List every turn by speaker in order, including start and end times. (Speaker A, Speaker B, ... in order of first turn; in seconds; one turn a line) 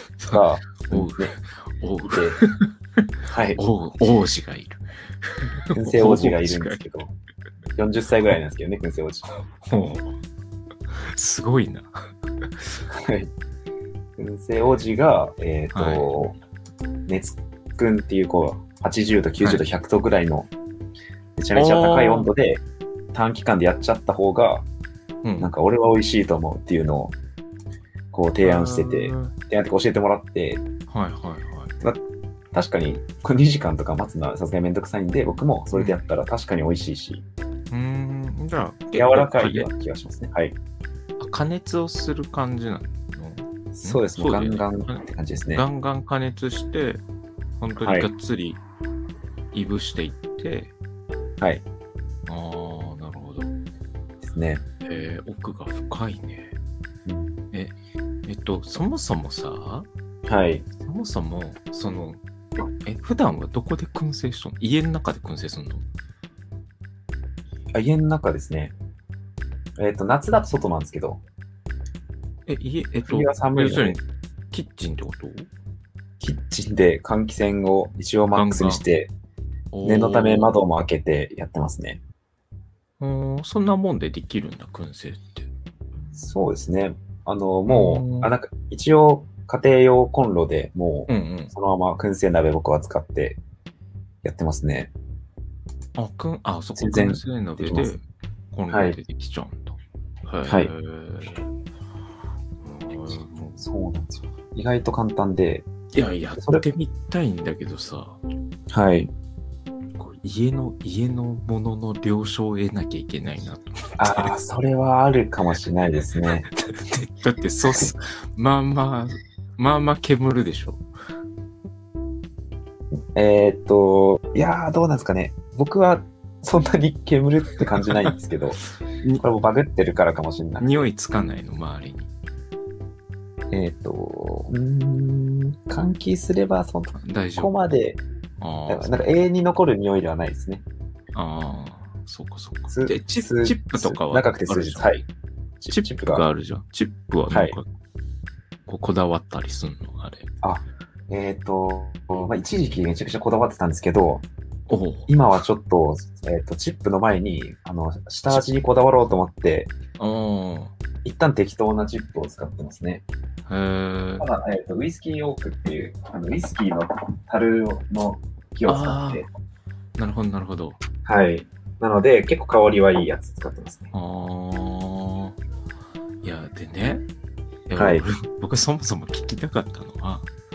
Speaker A: 0.2-3.0
Speaker B: 0.3-1.3
Speaker B: 2.1-2.4
Speaker B: 3.3-3.6
Speaker A: 3.6-6.8
Speaker B: 5.7-7.1
Speaker B: 7.8-9.3
Speaker A: 9.5-10.1
Speaker A: 10.9-12.0
Speaker B: 12.9-13.3
Speaker B: 14.2-16.4
Speaker A: 15.7-16.1
Speaker B: 17.1-20.5
Speaker B: 21.4-24.6
Speaker A: 21.5-22.3
Speaker A: 25.2-25.5
Speaker B: 25.4-27.1
Speaker B: 28.1-30.6
Speaker A: 28.4-29.3
Speaker A: 30.9-31.7
Speaker B: 32.5-37.3
Speaker A: 35.7-36.0
Speaker A: 37.7-39.7
Speaker B: 38.9-40.6
Speaker A: 41.2-47.0
Speaker B: 43.7-45.7
Speaker A: 47.6-48.6
Speaker B: 47.8-48.1
Speaker A: 49.5-50.7
Speaker A: 52.3-53.5
Speaker B: 54.2-54.6
Speaker A: 54.8-56.6
Speaker B: 57.1-57.4
Speaker A: 58.3-59.9
Speaker B: 60.3-60.6
Speaker A: 60.8-62.2
Speaker A: 62.8-65.8
Speaker B: 67.7-68.8
Speaker B: 69.8-71.2
Speaker A: 72.5-75.5
Speaker B: 73.1-74.0
Speaker B: 76.2-79.1
Speaker A: 78.3-78.8
Speaker A: 79.7-80.6
Speaker B: 79.8-82.0
Speaker A: 83.0-85.5
Speaker B: 86.2-93.4
Speaker A: 87.7-88.3
Speaker A: 91.1-91.5
Speaker B: 94.2-94.9
Speaker A: 95.9-101.5
Speaker B: 96.8-98.0
Speaker B: 98.7-99.0
Speaker B: 100.5-100.7
Speaker A: 102.6-103.7
Speaker B: 103.6-105.7
Speaker A: 105.9-108.2
Speaker B: 106.4-106.6
Speaker B: 108.7-109.1
Speaker A: 110.0-114.4
Speaker B: 114.0-116.5
Speaker A: 116.5-120.8
Speaker B: 123.1-128.6
Speaker B: 129.2-130.8
Speaker A: 130.6-132.1
Speaker B: 133.5-138.0
Speaker A: 137.0-137.5
Speaker A: 138.4-139.2
Speaker B: 138.7-140.6
Speaker A: 141.1-144.9
Speaker B: 142.7-145.1
Speaker B: 145.6-146.2
Speaker A: 145.7-147.7
Speaker B: 147.3-147.6
Speaker A: 148.7-150.3
Speaker B: 150.4-154.3
Speaker A: 154.7-155.1
Speaker B: 155.1-159.7
Speaker A: 160.0-160.7
Speaker B: 161.0-163.1
Speaker A: 163.5-164.3
Speaker B: 164.2-169.3
Speaker A: 168.7-169.3
Speaker A: 170.0-170.8
Speaker B: 171.1-173.9
Speaker A: 173.9-175.4
Speaker A: 176.2-177.1
Speaker A: 177.7-180.3
Speaker B: 177.8-178.1